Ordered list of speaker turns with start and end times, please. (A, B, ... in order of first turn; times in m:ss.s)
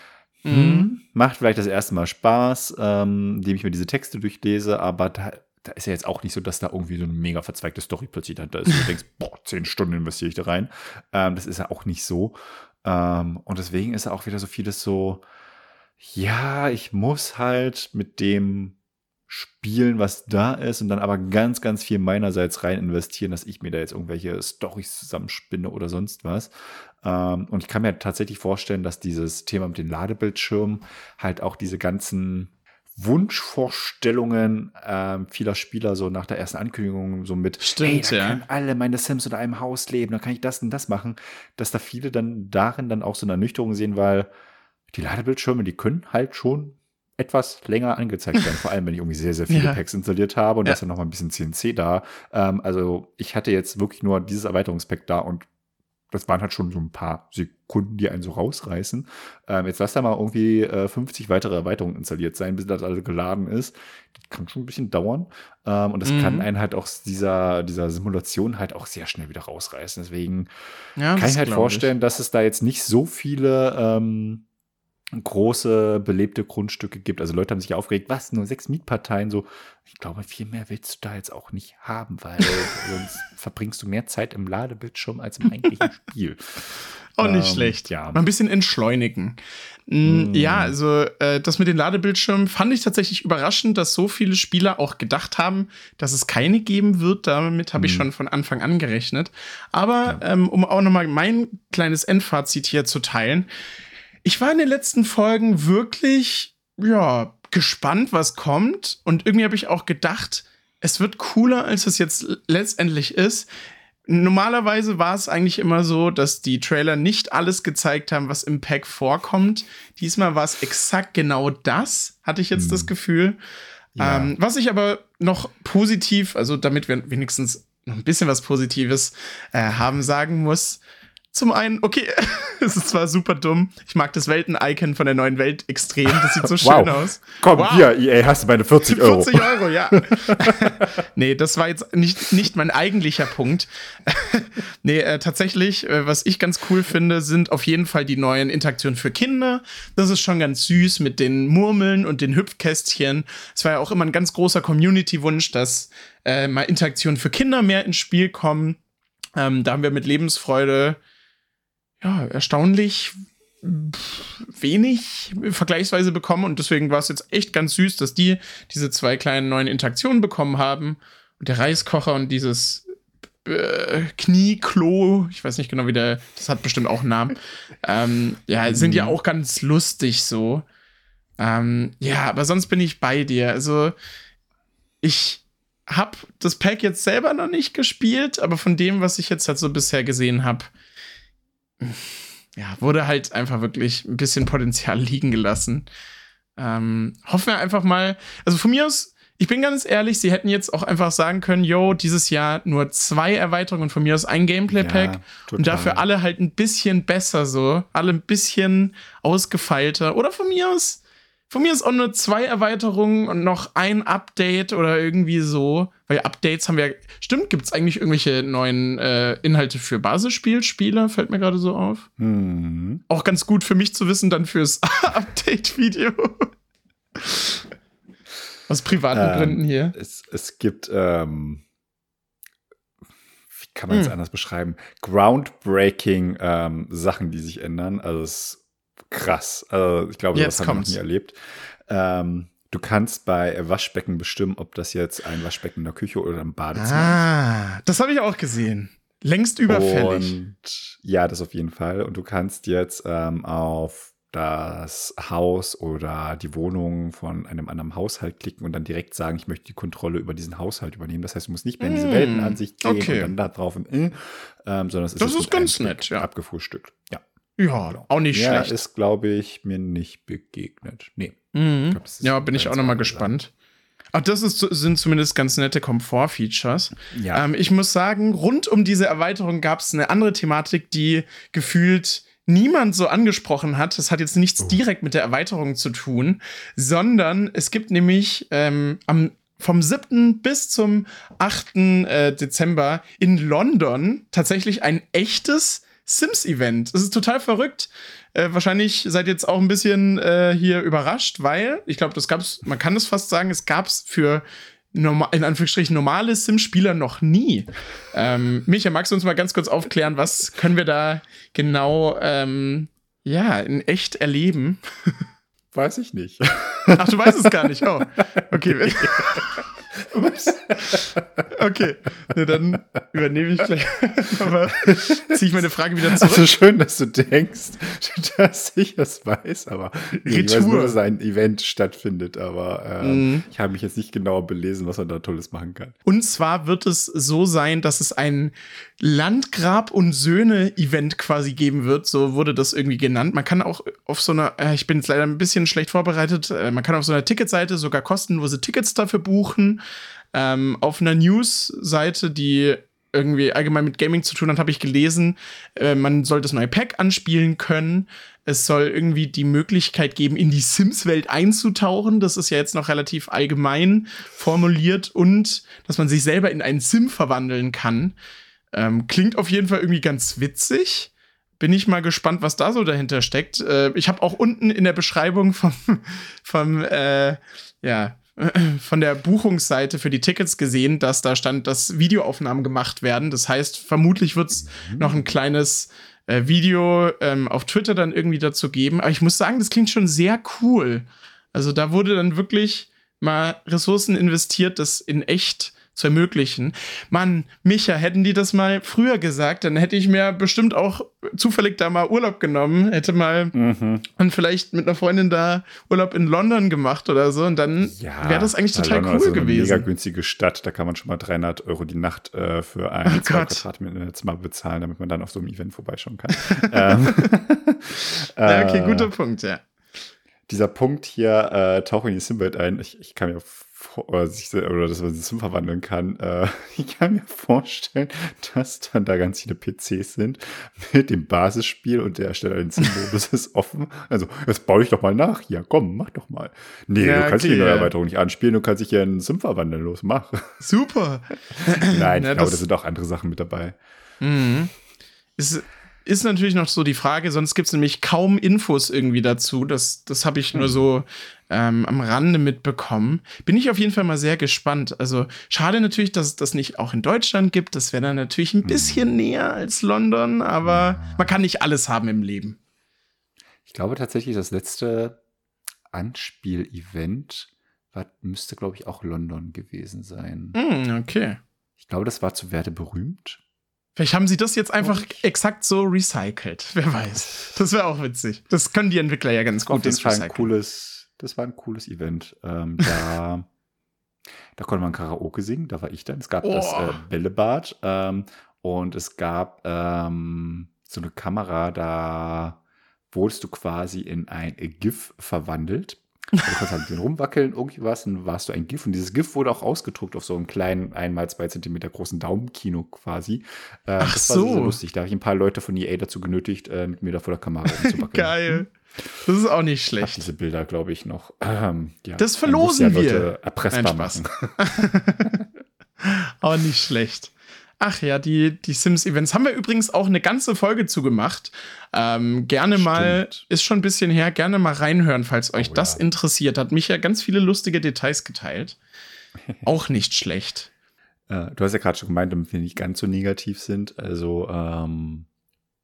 0:00.4-0:00.9 A
0:00.4-0:15.2 B
0:16.0-0:18.8 B
0:19.3-0:26.5 B
0:27.0-0:44.3 B
0:37.6-0:38.4 A
0:44.9-0:55.5 B
0:49.5-0:49.8 A
0:56.1-1:10.5 B
1:06.0-1:06.5 A
1:11.0-1:11.9 A
1:11.2-1:14.4 B
1:15.1-1:26.5 B
1:27.2-1:43.5 A
1:27.2-1:28.2 B
1:30.0-1:30.8 B
1:37.8-1:38.1 B
1:44.2-1:53.5 A
1:54.1-2:03.4 A
2:02.6-2:02.9 B
2:04.0-2:04.3 B
2:04.0-2:10.8 A
2:11.3-2:17.9 A
2:16.4-2:20.9 B
2:18.8-2:38.8 A
2:39.4-2:41.0 A
2:42.0-2:52.9 A
2:53.4-3:00.6 A
2:58.7-2:59.2 B
3:01.4-3:04.0 A
3:05.0-3:10.7 A
3:11.8-3:15.9 A
3:16.6-3:42.1 A
3:24.7-3:26.0 B
3:42.2-3:43.0 B
3:43.1-3:46.5 A
3:47.2-3:47.6 A
3:48.7-3:50.0 A
3:49.1-3:51.6 B
3:53.5-4:07.2 B
4:00.3-4:01.0 A
4:06.8-4:10.4 A
4:09.7-4:27.2 B
4:21.8-4:23.3 A
4:25.2-4:26.3 A
4:27.6-4:28.8 A
4:27.9-4:33.3 B
4:31.5-4:33.5 A
4:34.1-5:15.2 A
4:37.1-4:37.4 B
5:15.7-5:17.7 B
5:17.0-5:19.5 A
5:18.2-5:21.5 B
5:20.2-5:20.4 A
5:21.5-5:26.5 A
5:24.8-5:25.4 B
5:26.0-5:36.0 B
5:30.2-5:31.0 A
5:33.0-5:33.5 A
5:36.0-5:49.8 A
5:50.3-6:08.2 A
6:08.7-6:43.5 A
6:24.6-6:25.3 B
6:43.5-6:44.1 B
6:44.2-6:49.9 A
6:47.8-6:59.1 B
6:53.0-6:53.6 A
6:56.5-6:57.0 A
6:58.4-6:59.6 A
7:00.5-7:20.6 B
7:17.0-7:17.9 A
7:20.6-7:22.6 A
7:21.6-7:23.8 B
7:24.2-7:24.7 A
7:25.4-7:42.6 A
7:38.6-7:39.1 B
7:40.6-7:41.3 B
7:43.7-7:45.2 B
7:45.9-7:50.6 B
7:50.6-7:51.4 A
7:51.8-7:53.4 B
7:54.0-8:00.5 A
7:54.8-7:55.2 B
7:59.7-8:03.5 B
8:04.6-8:12.6 B
8:06.4-8:07.0 A
8:13.1-8:28.6 B
8:24.0-8:24.8 A
8:27.8-8:28.7 A
8:29.2-8:30.3 A
8:30.0-8:34.6 B
8:32.2-8:35.4 A
8:36.0-8:48.8 A
8:42.7-8:43.4 B
8:45.6-8:46.0 B
8:49.6-8:50.7 A
8:51.3-8:55.3 B